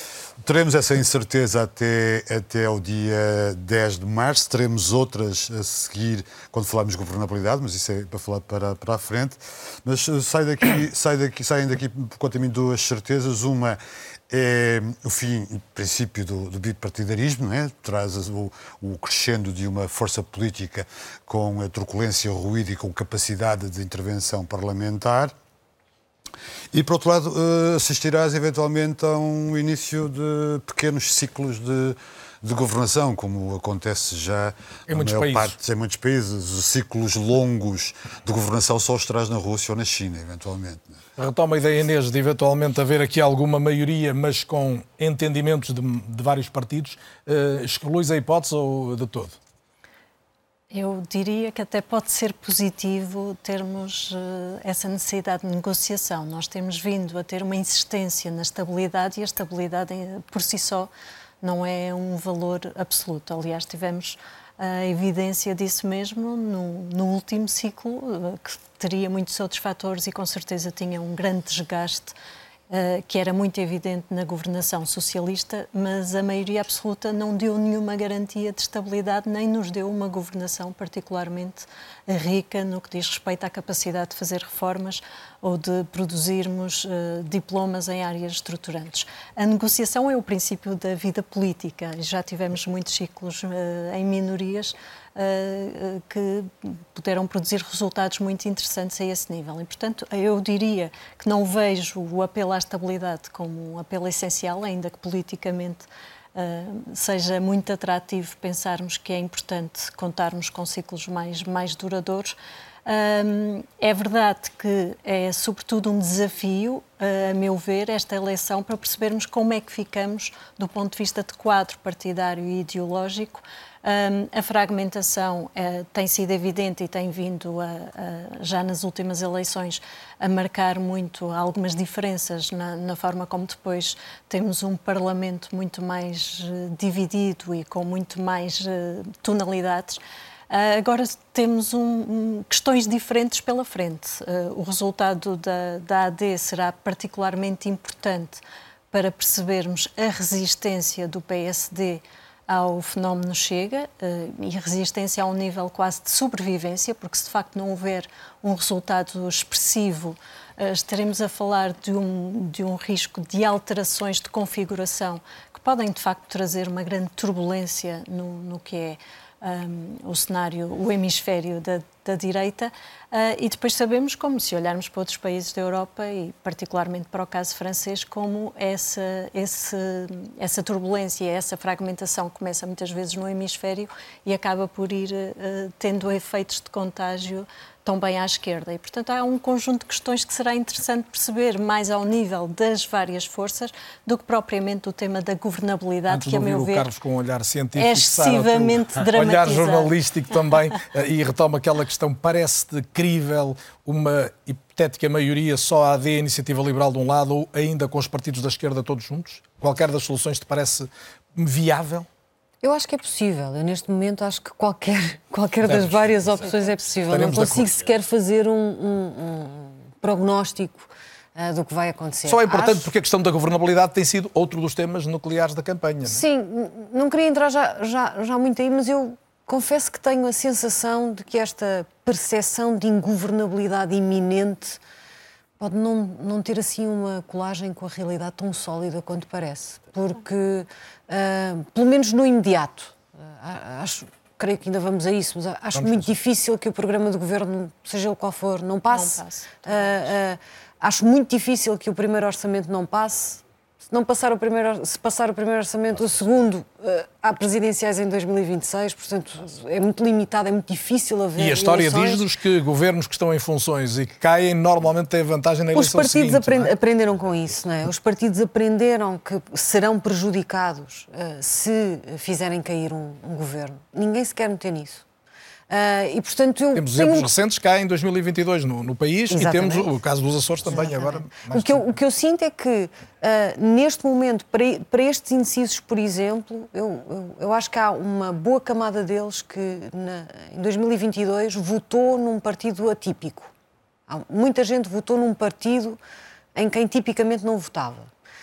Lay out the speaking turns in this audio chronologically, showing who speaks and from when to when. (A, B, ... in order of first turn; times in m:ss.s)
0:00.4-0:13.8 A
0:14.3-0:25.3 A
0:26.7-0:41.0 A
0:34.9-0:35.5 B
0:41.2-0:49.4 B
0:50.7-1:00.9 C
1:01.4-1:12.2 C
1:12.7-2:28.4 C
2:28.9-3:16.9 C
3:16.1-3:32.1 B
3:17.8-3:20.0 C
3:32.6-3:42.9 D
3:35.6-3:36.0 B
3:37.1-3:37.7 B
3:42.3-3:46.2 B
3:46.0-3:54.8 D
3:55.6-4:22.3 D
4:05.7-4:06.1 B
4:08.9-4:10.1 C
4:21.4-4:26.7 B
4:25.7-4:35.0 D
4:35.7-4:37.3 D
4:36.8-4:41.9 B
4:39.3-4:39.9 D
4:40.6-4:53.5 D
4:54.1-4:56.0 D
4:56.6-4:58.1 D